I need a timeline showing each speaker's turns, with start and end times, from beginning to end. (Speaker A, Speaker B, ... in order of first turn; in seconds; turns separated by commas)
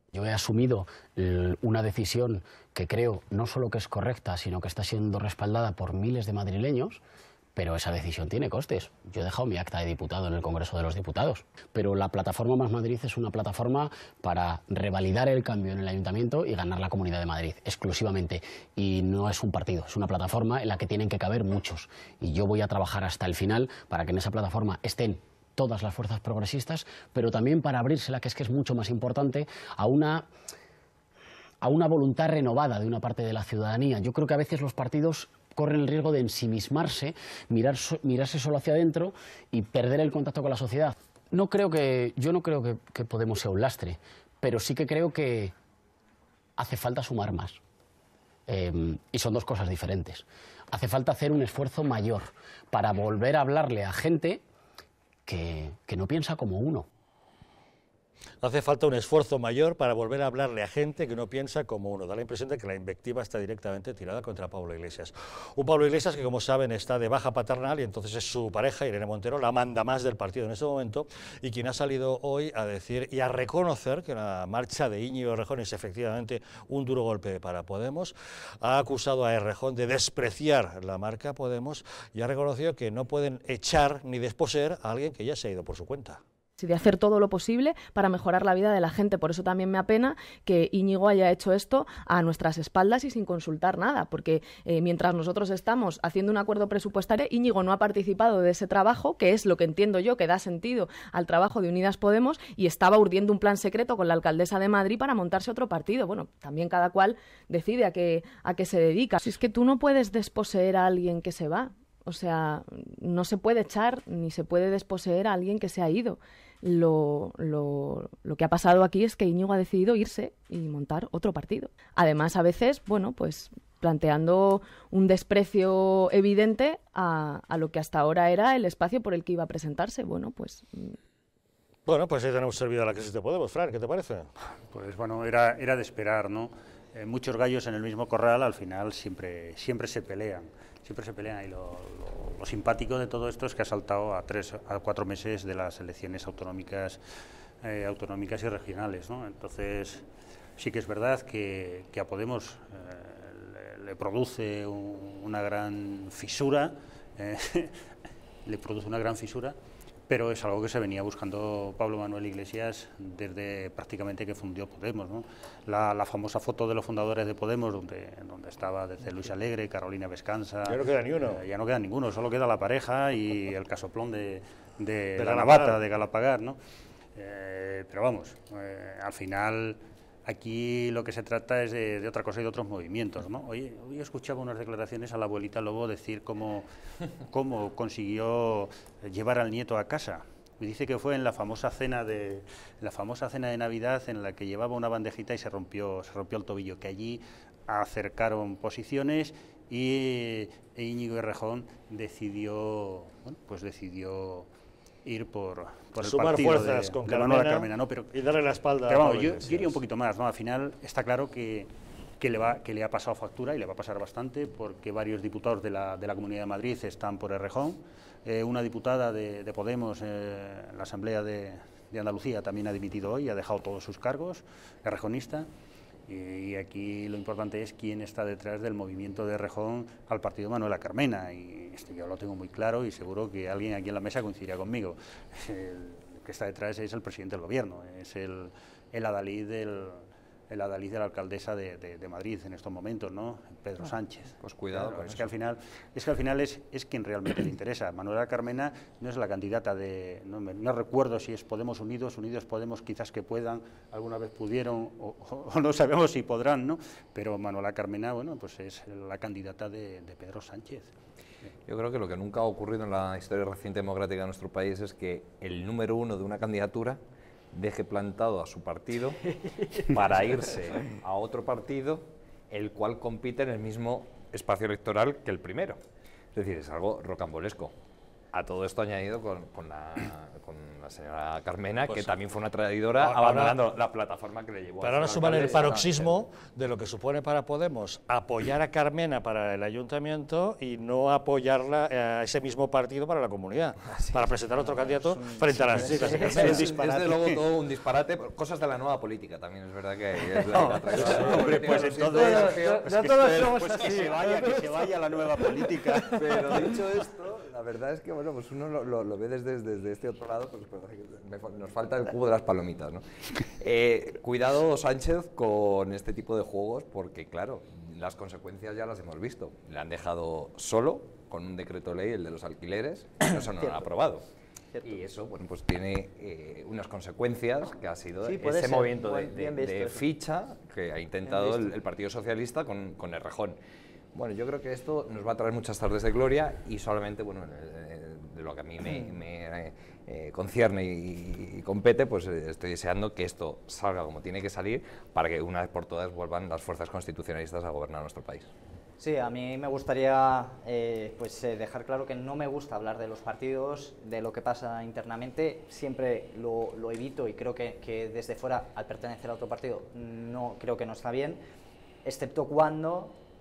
Speaker A: 0.1-7.0, Speaker A: 7.5-30.3, Speaker A: 31.6-45.5, Speaker A: 46.6-47.6, Speaker A: 48.5-54.4, Speaker A: 55.2-56.9, Speaker B: 58.4-86.2, Speaker C: 86.6-131.0, Speaker B: 131.8-134.3, Speaker D: 134.7-147.0, Speaker D: 147.6-150.0, Speaker D: 150.6-157.8, Speaker D: 158.4-159.6, Speaker D: 160.1-176.6, Speaker B: 170.7-171.4, Speaker B: 175.2-175.8, Speaker D: 177.1-186.7, Speaker D: 187.2-204.5, Speaker D: 205.0-208.1, Speaker B: 206.0-209.8, Speaker D: 208.8-225.5, Speaker D: 226.1-260.9, Speaker E: 244.4-245.3, Speaker E: 261.7-267.0, Speaker E: 267.5-269.2, Speaker E: 269.8-275.8, Speaker E: 276.3-277.7, Speaker E: 278.3-286.2, Speaker B: 281.9-282.1, Speaker B: 283.0-283.6, Speaker B: 284.8-296.6, Speaker E: 293.9-294.9, Speaker F: 295.1-296.6, Speaker E: 295.7-302.9, Speaker D: 295.7-297.4, Speaker F: 300.4-300.7, Speaker D: 300.5-306.3, Speaker F: 301.6-304.9, Speaker E: 306.1-324.2, Speaker F: 323.3-323.9, Speaker F: 324.7-325.0, Speaker E: 324.8-333.6, Speaker F: 328.2-330.1, Speaker F: 331.2-331.7, Speaker E: 334.1-348.5, Speaker F: 349.0-361.4, Speaker F: 362.0-363.1